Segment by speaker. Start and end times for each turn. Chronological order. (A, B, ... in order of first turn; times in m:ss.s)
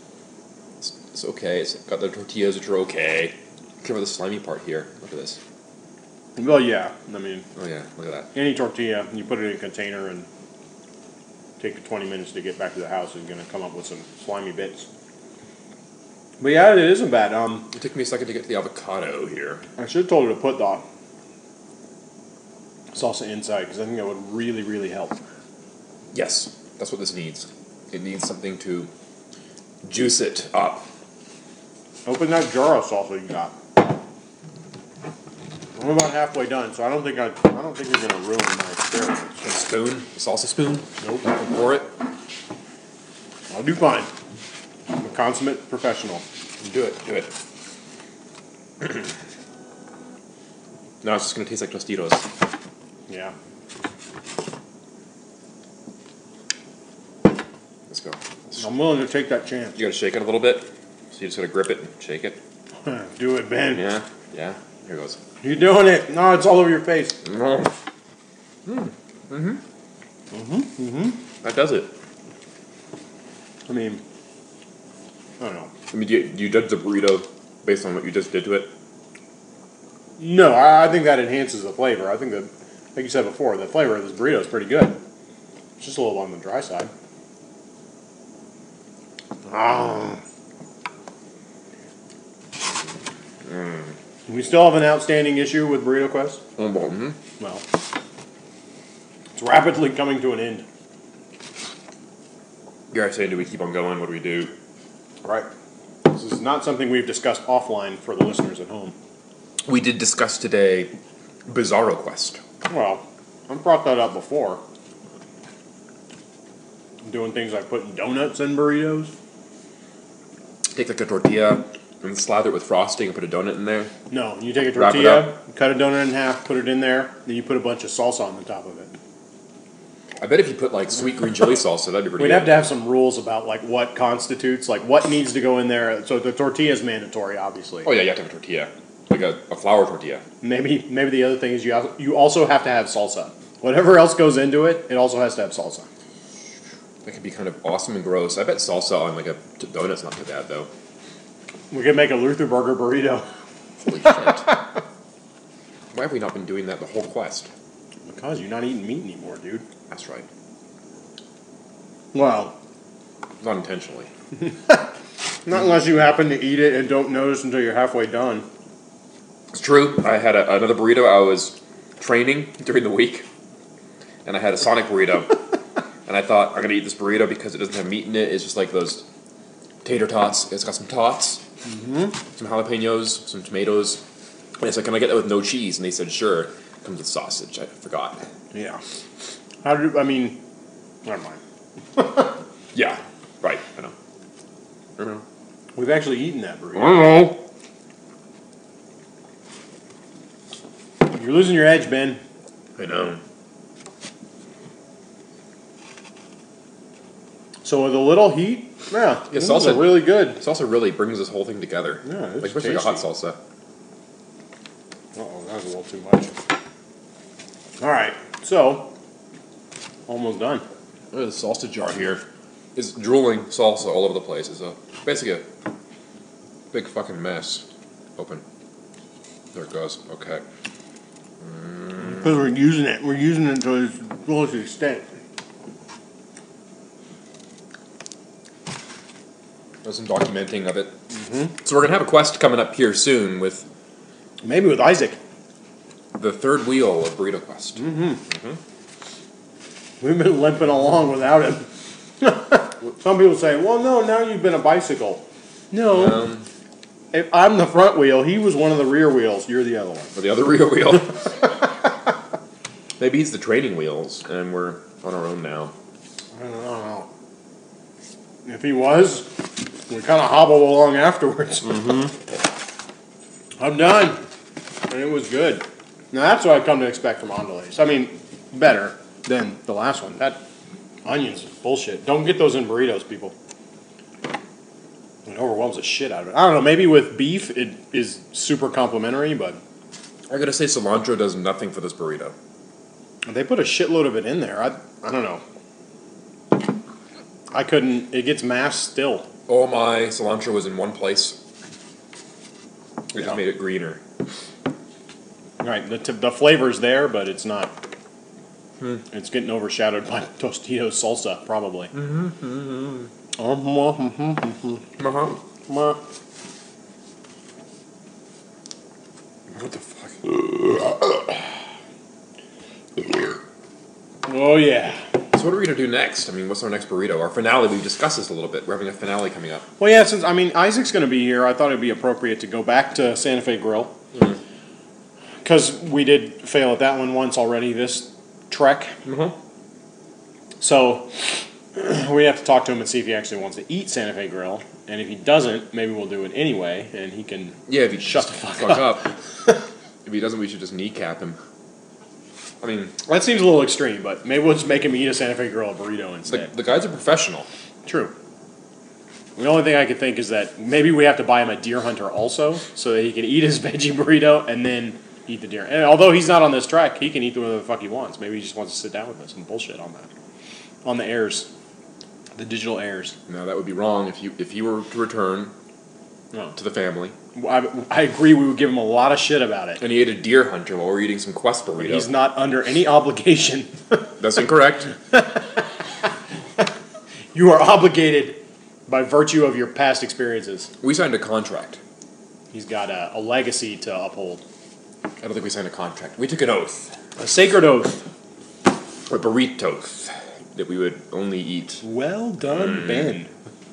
0:00.8-0:05.4 A
0:06.4-0:07.4 B
0:07.6-0:08.3 A
0:08.3-0:10.3 B
0:11.6-0:14.9 B
0:16.4-0:17.7 B
0:17.7-0:19.6 A
0:19.8-0:20.8 B
0:22.9-0:25.2 B
0:26.1-0:28.9 A
0:29.8-0:30.8 A
0:32.0-0:33.6 B
0:35.8-0:39.5 B
0:39.4-0:41.9 A
0:41.0-0:41.2 B
0:43.5-0:44.1 B
0:44.9-0:46.2 B
0:46.6-0:47.3 A
0:51.0-0:52.3 A
0:53.1-0:53.3 B
0:57.9-0:58.6 A
0:58.6-0:59.8 B
0:59.8-1:02.4 A
1:02.8-1:03.9 B
1:03.7-1:05.2 A
1:05.4-1:07.2 B
1:07.2-1:07.7 A
1:08.6-1:09.6 A
1:10.3-1:11.2 B
1:11.4-1:11.9 A
1:13.7-1:14.0 B
1:15.4-1:15.7 B
1:15.9-1:18.7 A
1:20.2-1:25.0 B
1:25.8-1:26.9 B
1:29.5-1:30.2 B
1:33.5-1:33.9 A
1:34.3-1:36.4 B
1:36.6-1:37.2 A
1:37.4-1:37.6 B
1:39.4-1:40.6 B
1:42.9-1:44.5 A
1:45.2-1:45.5 B
1:46.0-1:48.9 B
1:49.6-1:50.9 A
1:51.5-1:52.4 A
1:52.6-1:54.6 B
1:57.0-1:59.1 B
2:00.7-2:03.9 A
2:04.1-2:08.9 B
2:04.7-2:05.3 A
2:10.2-2:12.6 A
2:12.2-2:17.9 B
2:17.8-2:20.2 A
2:20.4-2:25.9 B
2:27.0-2:30.7 A
2:31.7-2:33.3 B
2:33.8-2:34.6 A
2:35.9-2:37.5 A
2:38.1-2:39.6 B
2:39.9-2:40.2 A
2:42.1-2:42.5 B
2:43.4-2:44.1 A
2:44.5-2:44.9 B
2:45.4-2:48.5 B
2:49.5-2:53.2 A
2:54.2-2:59.0 A
2:59.8-3:01.4 A
3:01.6-3:02.2 B
3:02.3-3:04.0 A
3:04.6-3:08.2 A
3:08.5-3:08.8 B
3:09.6-3:10.4 B
3:11.0-3:11.4 B
3:12.0-3:12.3 B
3:12.7-3:13.9 A
3:15.0-3:15.2 A
3:15.7-3:17.3 B
3:16.8-3:17.4 A
3:21.0-3:22.2 B
3:22.8-3:23.2 A
3:27.6-3:30.4 B
3:29.3-3:33.4 A
3:32.0-3:33.0 B
3:35.1-3:36.3 B
3:37.8-3:38.9 B
3:40.1-3:40.6 B
3:41.1-3:42.2 A
3:42.7-3:45.4 A
3:46.7-3:47.6 A
3:48.2-3:48.4 A
3:49.5-3:50.4 A
3:51.4-3:52.3 A
3:52.0-3:55.0 B
3:59.8-4:01.0 A
4:01.1-4:01.5 B
4:01.6-4:03.7 A
4:04.4-4:05.2 B
4:06.1-4:08.6 A
4:07.8-4:08.2 B
4:10.0-4:11.7 B
4:12.2-4:16.3 B
4:15.9-4:16.4 A
4:17.1-4:20.1 B
4:20.1-4:21.6 A
4:23.0-4:25.7 A
4:26.3-4:27.1 B
4:28.4-4:32.1 B
4:31.6-4:32.1 A
4:33.6-4:34.2 B
4:34.9-4:40.4 B
4:41.0-4:43.3 B
4:45.2-4:49.6 B
4:50.3-4:52.3 A
4:53.2-4:55.4 B
4:57.5-4:59.3 B
4:59.5-5:01.4 A
5:03.1-5:04.0 A
5:05.6-5:07.7 B
5:09.1-5:11.9 B
5:11.9-5:13.1 A
5:13.4-5:14.8 B
5:15.0-5:15.4 A
5:15.7-5:16.0 B
5:19.5-5:21.2 A
5:24.3-5:25.1 B
5:25.3-5:29.6 A
5:29.8-5:33.9 B
5:35.4-5:38.9 B
5:39.0-5:39.3 A
5:40.6-5:49.1 B
5:47.7-5:49.1 A
5:50.0-5:51.4 A
5:52.6-5:52.9 A
5:53.0-5:56.5 B
5:56.2-5:57.5 A
5:57.8-5:58.1 B
5:59.4-6:10.1 B
6:10.8-6:11.5 B
6:12.4-6:13.2 B
6:13.3-6:15.5 A
6:16.5-6:17.1 A
6:17.3-6:19.8 B
6:19.8-6:22.1 A
6:21.8-6:24.2 B
6:24.2-6:24.9 A
6:25.1-6:25.6 B
6:27.3-6:30.7 B
6:30.8-6:31.8 A
6:32.5-6:34.4 B
6:35.2-6:36.9 A
6:37.2-6:38.0 B
6:39.1-6:41.8 A
6:41.8-6:43.3 B